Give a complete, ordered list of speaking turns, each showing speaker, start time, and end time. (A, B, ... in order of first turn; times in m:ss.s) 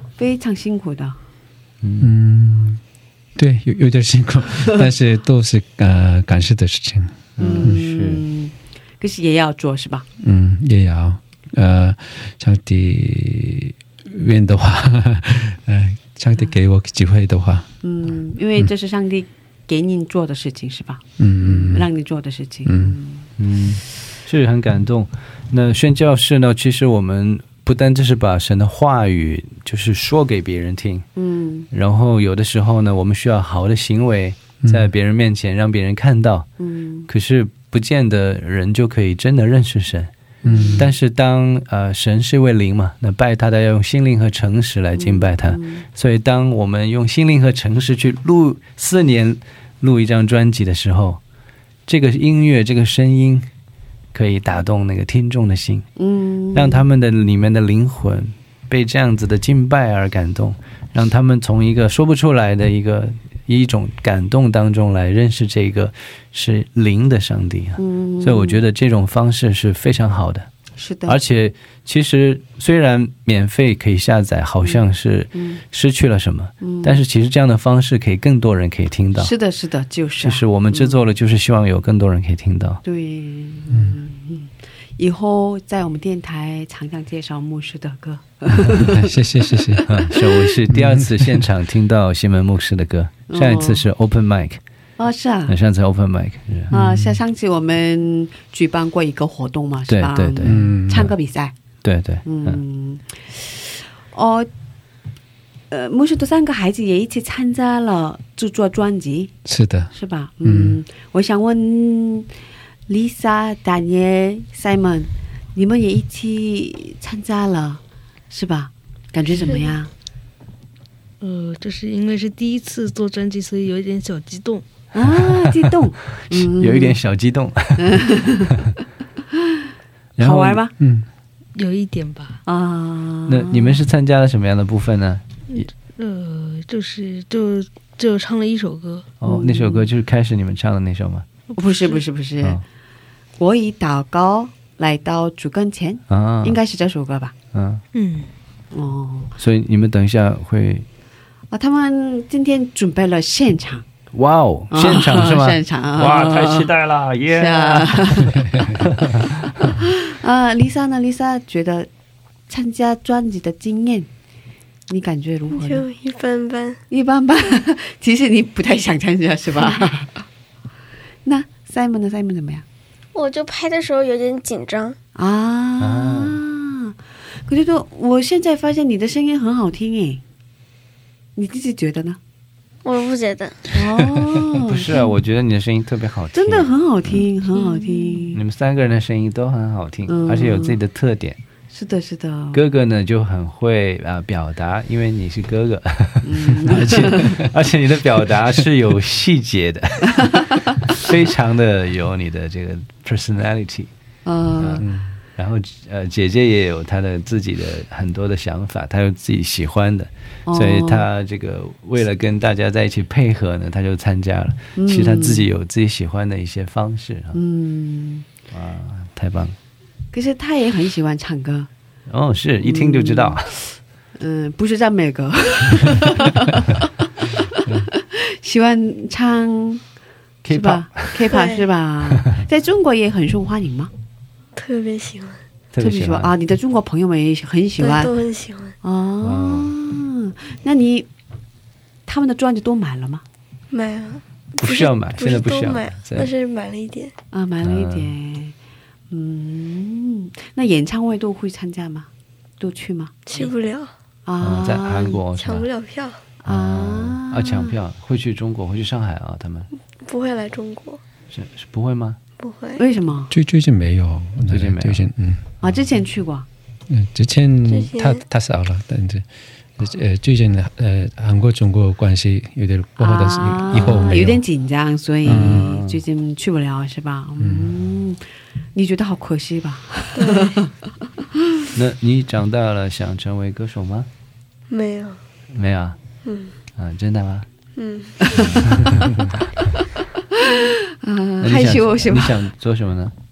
0:00.2-0:01.2 A
0:01.8-0:02.1 B
0:02.0-0:02.8 C
0:03.4-0:07.8 C
0:07.4-0:08.2 B
0:07.4-0:10.0 A
0:10.2-0:17.7 C
0:17.8-0:23.3 A
0:21.2-0:21.9 C
0:22.6-0:23.0 C
0:23.4-0:31.1 B
0:31.2-0:31.7 A
0:31.7-0:36.5 B
0:34.6-0:34.9 C
0:36.6-0:37.0 A
0:37.1-0:40.1 B
0:40.4-0:40.8 A
0:40.4-0:40.9 C
0:40.8-0:51.2 B
0:44.9-0:45.8 A
0:51.9-0:53.5 B
0:54.1-0:55.9 B
0:56.0-0:56.8 A
0:56.5-1:10.5 B
1:07.8-1:08.6 A
1:10.8-1:11.2 A
1:11.0-1:19.3 B
1:16.6-1:17.0 A
1:19.2-1:20.9 A
1:20.2-1:22.8 B
1:22.8-1:30.2 A
1:23.7-1:24.0 C
1:28.7-1:29.9 C
1:29.9-1:34.6 B
1:30.7-1:31.4 C
1:33.3-1:33.8 A
1:35.0-1:35.5 A
1:35.5-1:36.7 B
1:36.7-1:37.2 C
1:36.7-1:41.5 A
1:39.9-1:41.1 B
1:40.4-1:41.1 C
1:41.8-1:42.6 B
1:42.2-1:44.5 A
1:45.7-1:49.3 A
1:49.4-1:49.9 C
1:49.9-1:52.3 A
1:50.4-1:50.8 C
1:52.9-1:59.9 A
2:01.2-2:04.6 D
2:04.9-2:07.0 A
2:06.3-2:08.1 B
2:07.8-2:08.5 A
2:10.2-2:10.6 B
2:10.2-2:10.7 A
2:10.8-2:11.1 C
2:11.5-2:12.4 D
2:12.4-2:13.8 A
2:13.3-2:15.7 B
2:15.5-2:19.1 D
2:19.2-2:21.2 B
2:19.2-2:19.9 A
2:21.6-2:22.6 A
2:23.4-2:27.3 A
2:26.1-2:26.6 B
2:27.5-2:27.8 B
2:27.9-2:28.3 D
2:28.7-2:29.3 A
2:29.4-2:30.9 B
2:31.5-2:33.8 A
2:34.1-2:37.5 B
2:34.7-2:38.7 A
2:38.5-2:38.7 C
2:39.6-2:41.9 A
2:42.5-2:44.1 A
2:44.9-2:45.9 A
2:45.5-2:46.8 E
2:46.9-2:50.2 A
2:51.2-2:52.6 A
2:53.2-2:55.0 E
2:55.2-3:00.2 A
2:55.8-2:56.4 B
3:01.4-3:02.2 A
3:02.8-3:03.6 E
3:03.7-3:05.0 A
3:04.7-3:06.7 B
3:06.3-3:08.4 A
3:08.3-3:11.4 B
3:10.1-3:10.8 A
3:11.7-3:12.6 A
3:12.5-3:23.9 B
3:16.2-3:17.3 A
3:16.7-3:17.5 C
3:24.2-3:24.8 A
3:24.6-3:37.4 B
3:24.8-3:25.1 C
3:30.5-3:31.0 A
3:34.8-3:35.4 A
3:37.3-3:38.3 A
3:38.5-3:39.6 B
3:40.1-3:41.7 A
3:42.1-3:43.6 B
3:42.6-3:43.6 A
3:44.2-3:47.0 A
3:48.0-3:49.8 A
3:50.4-3:51.2 B
3:50.5-3:53.9 A
3:51.3-3:51.7 E
3:54.6-3:55.4 E
3:55.7-3:56.3 B
3:55.8-3:58.2 A
3:57.8-3:58.7 E
3:58.8-4:01.1 A
3:59.2-3:59.7 B
4:02.0-4:03.2 A
4:03.7-4:07.1 E
4:04.6-4:06.3 B
4:07.3-4:08.5 A
4:07.6-4:08.1 B
4:09.1-4:12.1 A
4:12.6-4:13.5 A
4:13.3-4:13.9 E
4:14.2-4:15.2 A
4:14.4-4:15.7 B
4:15.4-4:16.2 E
4:16.4-4:17.7 A
4:16.5-4:19.7 B
4:20.0-4:21.0 E
4:21.3-4:22.2 B
4:22.4-4:22.8 E
4:22.8-4:23.3 A
4:23.3-4:25.4 C
4:24.5-4:25.1 B
4:25.6-4:26.5 A
4:26.9-4:29.2 C
4:27.7-4:28.2 E
4:29.8-4:34.4 C
4:33.0-4:38.2 A
4:33.7-4:34.2 B
4:35.2-4:35.7 C
4:35.2-4:36.0 B
4:37.4-4:37.7 C
4:38.7-4:40.7 A
4:40.2-4:40.5 E
4:41.7-4:44.1 B
4:44.7-4:45.2 E
4:45.6-4:46.0 B
4:46.2-4:46.5 E
4:46.8-4:47.5 B
4:47.8-4:48.1 E
4:48.3-4:49.2 B
4:50.5-4:52.3 A
4:51.4-4:53.1 B